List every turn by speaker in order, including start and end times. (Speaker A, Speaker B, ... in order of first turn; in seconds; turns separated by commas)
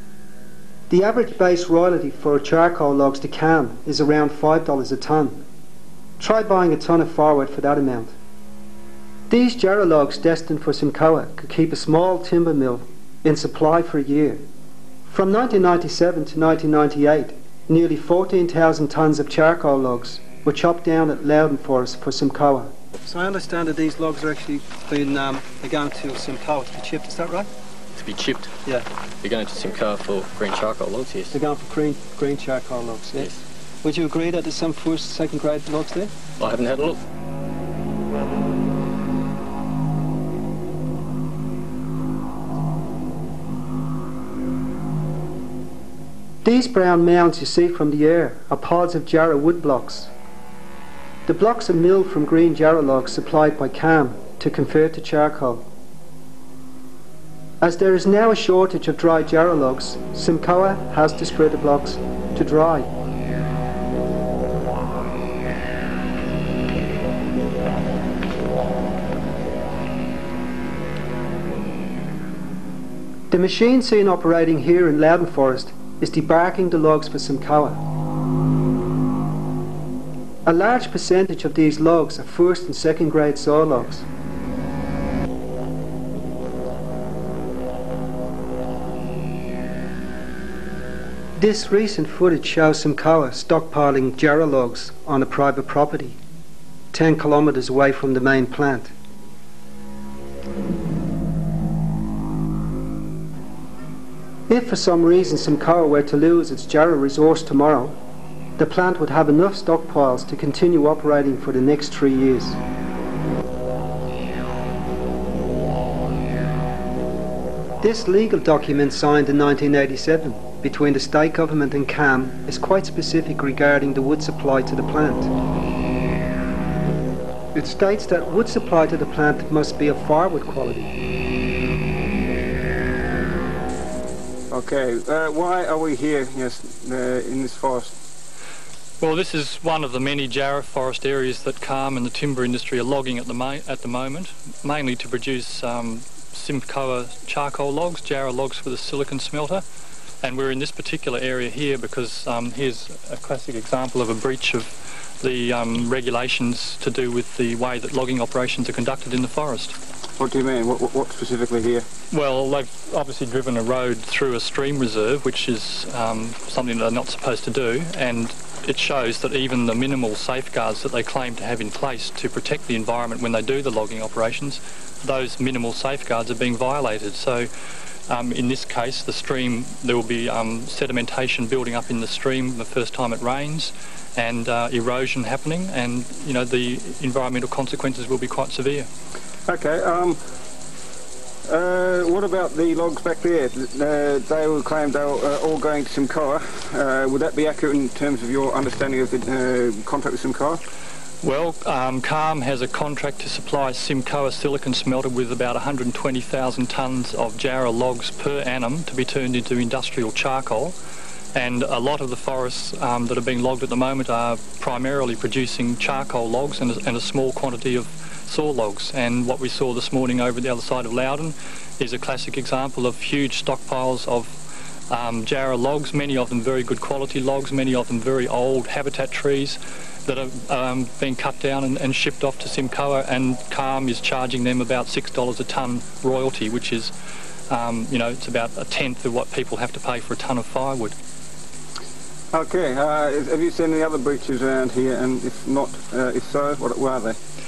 Speaker A: 0.9-5.4, Speaker A: 6.2-8.1, Speaker A: 9.3-14.4, Speaker A: 15.1-27.5, Speaker B: 28.0-28.5, Speaker B: 29.2-31.3, Speaker A: 31.3-33.3, Speaker A: 33.8-36.1, Speaker B: 36.4-37.0, Speaker A: 46.4-50.1, Speaker A: 51.3-55.6, Speaker A: 57.6-62.9, Speaker A: 73.3-77.8, Speaker A: 80.5-84.0, Speaker A: 91.4-96.2, Speaker A: 96.9-98.9, Speaker A: 104.5-108.0, Speaker A: 108.6-112.6, Speaker A: 117.8-125.3, Speaker A: 127.5-130.9, Speaker C: 134.5-137.9, Speaker D: 139.0-149.6, Speaker D: 150.2-159.8, Speaker C: 160.2-161.8, Speaker D: 162.1-177.5, Speaker D: 178.1-188.9, Speaker C: 189.5-190.2, Speaker C: 191.5-200.6, Speaker D: 201.2-210.7, Speaker D: 211.3-224.3, Speaker D: 224.9-236.9, Speaker D: 237.5-240.9, Speaker C: 242.3-247.2